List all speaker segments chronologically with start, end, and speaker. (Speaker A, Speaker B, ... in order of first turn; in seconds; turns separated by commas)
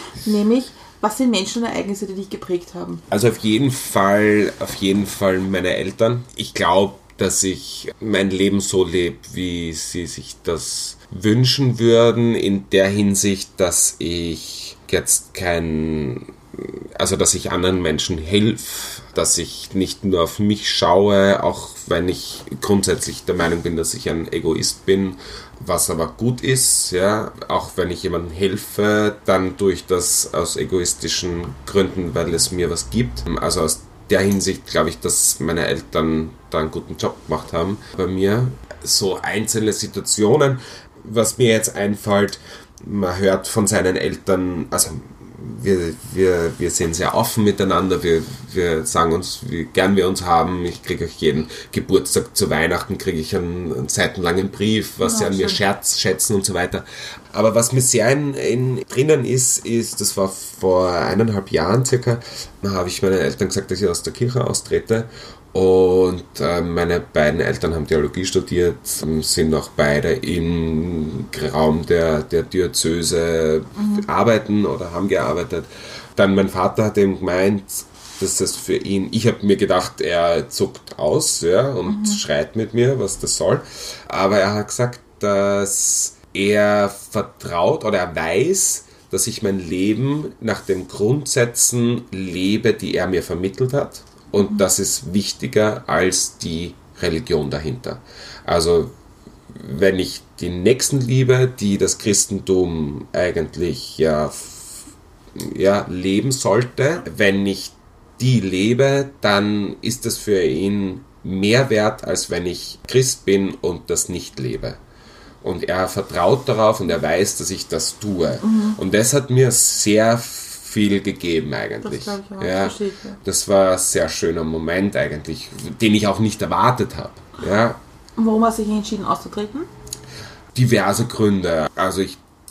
Speaker A: 0.2-3.0, Speaker B: 3.1-98.9, Speaker A: 55.0-55.6, Speaker A: 73.8-74.0, Speaker A: 81.9-82.2, Speaker B: 99.5-104.8, Speaker B: 105.3-114.8, Speaker B: 115.4-127.8, Speaker A: 118.4-118.8, Speaker A: 121.8-123.2, Speaker A: 128.2-129.7, Speaker B: 130.5-132.2